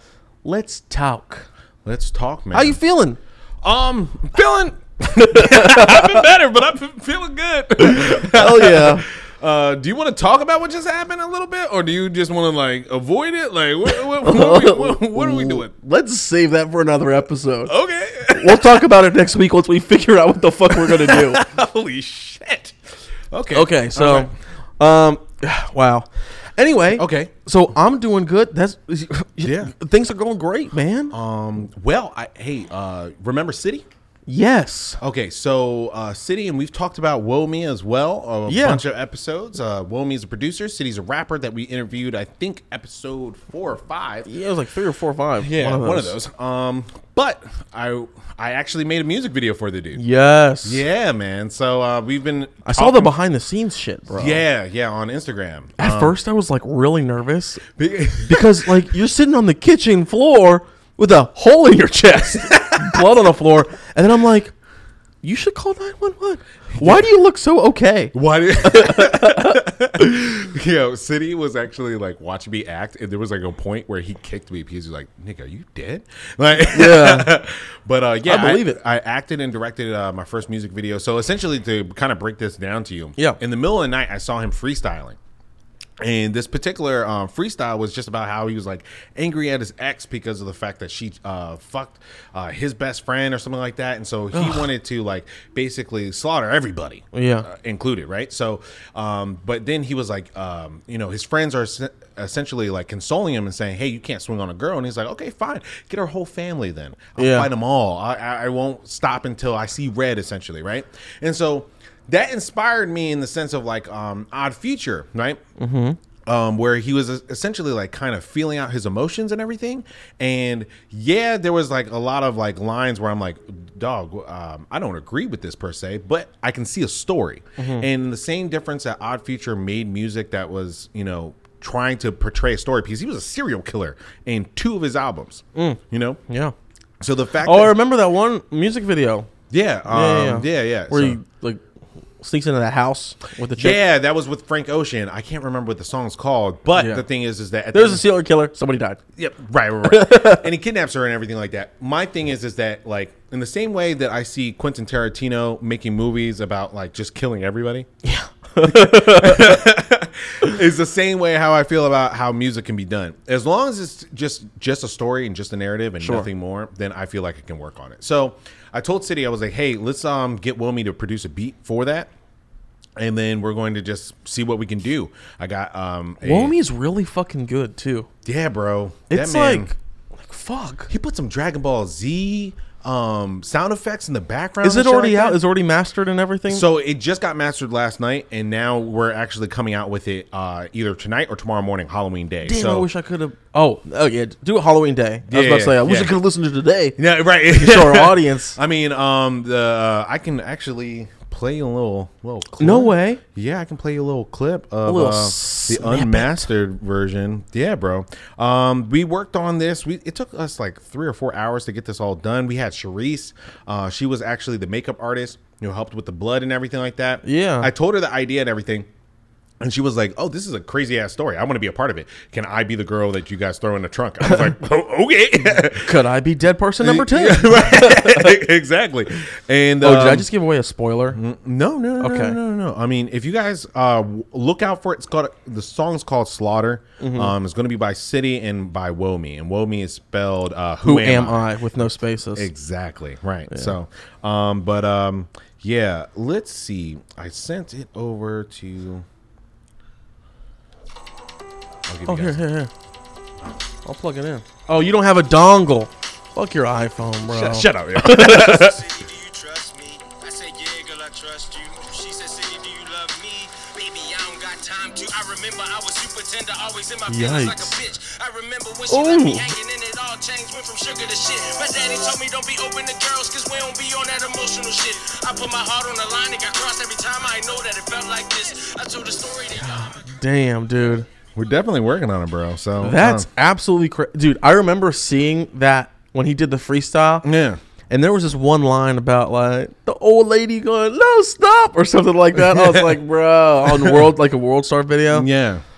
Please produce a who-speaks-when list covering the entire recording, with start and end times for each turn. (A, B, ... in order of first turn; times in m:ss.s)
0:00.4-0:01.5 A
0:01.8-0:02.8 B
0:02.5-0:03.2 A
0:03.6-0:15.7 B
0:05.0-0:06.3 A
0:07.8-0:09.1 A
0:14.2-0:17.7 A
0:17.7-0:18.8 B
0:18.3-0:21.4 A
0:20.7-0:22.7 B
0:23.3-0:24.4 B
0:23.5-0:31.2 A
0:26.9-0:27.3 B
0:29.4-0:29.7 B
0:31.1-0:33.8 B
0:34.3-0:35.0 A
0:35.0-0:44.3 B
0:38.5-0:38.8 A
0:44.3-0:46.2 A
0:45.4-0:50.0 B
0:50.0-0:50.8 A
0:50.6-0:53.1 B
0:52.6-0:54.4 A
0:54.2-0:56.2 B
0:55.8-0:57.6 A
0:57.8-0:58.8 B
0:58.2-1:04.5 A
1:02.4-1:03.0 B
1:05.2-1:09.6 A
1:06.7-1:07.1 B
1:08.1-1:25.2 B
1:16.7-1:17.4 A
1:18.2-1:18.8 A
1:26.0-1:55.4 B
1:34.3-1:34.7 A
1:37.1-1:37.5 A
1:47.2-1:47.5 A
1:55.6-1:56.0 A
1:56.2-2:16.2 B
2:07.6-2:07.9 A
2:15.6-2:16.5 A
2:17.0-2:17.8 B
2:17.4-2:19.3 A
2:19.5-2:21.2 B
2:19.9-2:21.6 A
2:22.2-2:23.8 A
2:23.6-2:28.0 B
2:26.7-2:27.0 A
2:27.7-2:29.0 A
2:29.2-2:37.9 B
2:29.8-2:30.4 A
2:38.0-2:39.6 A
2:38.6-2:52.1 B
2:46.0-2:46.3 A
2:53.0-2:56.6 B
2:56.2-2:58.1 A
2:58.2-2:59.7 B
2:59.1-3:00.9 A
3:00.9-3:05.4 B
3:04.6-3:06.6 A
3:06.5-3:12.9 B
3:12.4-3:18.6 A
3:15.3-3:16.2 B
3:17.0-3:38.9 B
3:22.6-3:23.2 A
3:24.9-3:26.5 A
3:37.2-3:37.7 A
3:39.6-3:45.9 B
3:44.2-3:44.5 A
3:45.7-3:48.4 A
3:46.8-3:50.3 B
3:49.8-3:51.2 A
3:51.1-4:01.5 B
3:52.0-3:52.4 A
3:57.0-3:57.3 A
4:00.8-4:02.5 A
4:02.4-4:09.1 B
4:11.9-4:12.4 B
4:12.1-4:12.7 A
4:13.8-4:18.6 A
4:17.2-4:18.8 B
4:18.1-4:40.0 C
4:27.1-4:27.8 A
4:28.9-4:29.5 A
4:39.6-4:41.1 A
4:41.4-4:43.3 B
4:42.8-4:47.2 A
4:47.2-4:47.6 B
4:47.9-4:55.3 A
4:52.4-4:53.0 B
4:53.6-4:54.1 B
4:55.1-4:55.6 B